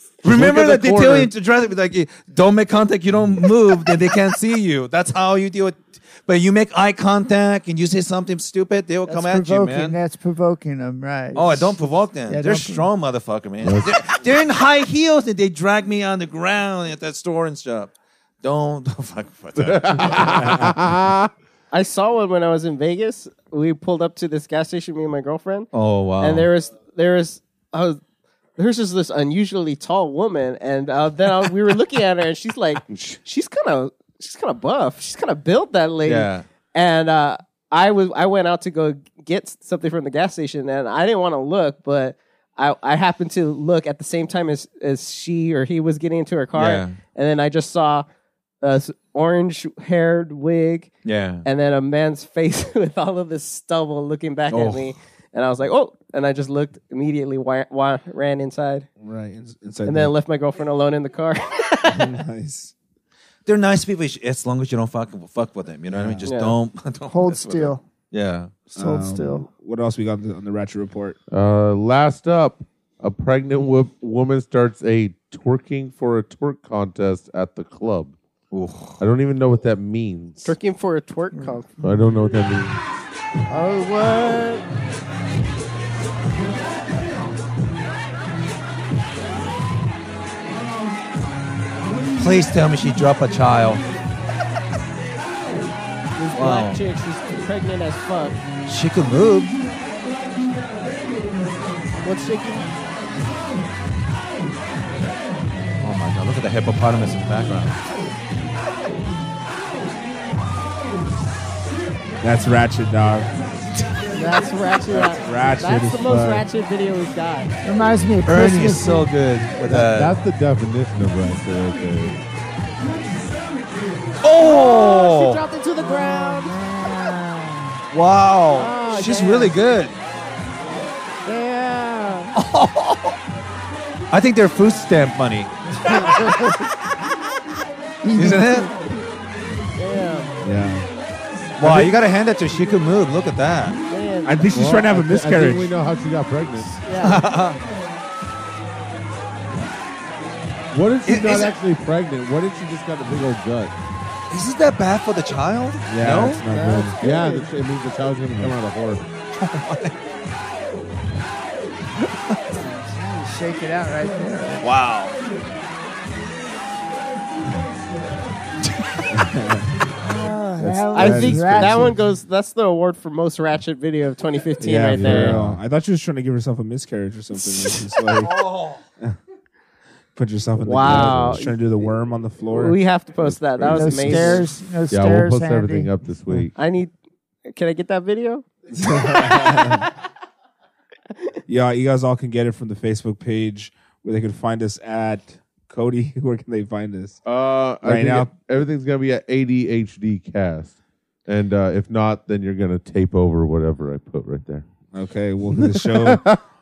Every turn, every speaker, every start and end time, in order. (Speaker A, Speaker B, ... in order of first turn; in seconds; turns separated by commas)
Speaker A: 0.2-1.3, Speaker B: 0.2-10.0, Speaker C: 9.1-11.8, Speaker B: 11.3-20.7, Speaker C: 12.3-12.9, Speaker A: 13.6-14.0, Speaker A: 19.6-21.3, Speaker D: 20.4-20.7, Speaker E: 21.7-28.0, Speaker B: 25.7-26.5, Speaker E: 28.6-48.1, Speaker A: 32.9-33.2, Speaker B: 36.0-36.5, Speaker B: 46.5-47.0, Speaker E: 48.6-50.9, Speaker B: 51.0-51.5, Speaker E: 51.5-58.9, Speaker B: 54.5-54.9, Speaker D: 59.0-60.1, Speaker E: 59.9-62.1, Speaker D: 61.9-62.7, Speaker B: 63.5-68.5, Speaker D: 65.9-66.3, Speaker E: 66.2-66.6, Speaker C: 67.1-67.8, Speaker C: 68.7-69.5, Speaker D: 68.7-71.2, Speaker A: 71.3-78.2, Speaker B: 78.5-79.0, Speaker A: 79.0-80.5, Speaker E: 80.5-81.7, Speaker C: 81.3-81.6, Speaker A: 81.8-82.8, Speaker E: 83.5-84.7, Speaker B: 92.2-93.8, Speaker E: 96.2-98.4, Speaker B: 96.3-96.8, Speaker B: 98.7-99.5, Speaker E: 102.0-102.7, Speaker B: 105.8-107.8, Speaker D: 112.2-113.3, Speaker E: 114.1-117.6, Speaker D: 114.9-116.5, Speaker C: 117.6-119.1, Speaker B: 118.2-120.1, Speaker A: 119.7-122.2, Speaker B: 124.2-125.4, Speaker E: 124.4-126.6, Speaker C: 125.8-127.8, Speaker B: 127.9-130.0, Speaker E: 128.5-129.6, Speaker E: 131.2-132.3, Speaker B: 132.4-133.2, Speaker B: 134.1-136.5, Speaker E: 135.9-136.5, Speaker B: 138.2-138.7, Speaker E: 139.8-140.3, Speaker D: 140.4-140.9, Speaker B: 141.6-143.8, Speaker D: 141.6-141.9, Speaker E: 143.9-144.5, Speaker D: 144.2-145.7, Speaker A: 144.5-146.8, Speaker E: 146.8-147.3, Speaker B: 147.0-147.6, Speaker A: 150.7-153.7, Speaker B: 151.1-151.6, Speaker B: 154.3-156.4, Speaker D: 155.9-157.0, Speaker E: 156.4-157.5, Speaker A: 156.9-159.1, Speaker D: 158.3-158.6, Speaker B: 159.4-160.0, Speaker C: 162.6-164.6, Speaker B: 164.6-165.2, Speaker D: 169.1-169.7, Speaker C: 170.0-171.9, Speaker D: 170.6-172.0, Speaker E: 170.9-175.4, Speaker D: 174.6-179.2, Speaker A: 174.9-175.6, Speaker B: 178.3-178.8, Speaker D: 180.1-184.5, Speaker E: 180.6-181.9, Speaker A: 180.8-181.5, Speaker E: 182.5-184.5, Speaker C: 183.7-185.9, Speaker A: 184.9-186.6, Speaker E: 186.6-186.9, Speaker E: 187.5-188.5, Speaker D: 188.7-189.9, Speaker E: 189.1-189.7, Speaker D: 191.5-197.2, Speaker A: 197.2-204.7, Speaker D: 197.8-198.3, Speaker D: 204.9-206.3, Speaker A: 205.6-206.4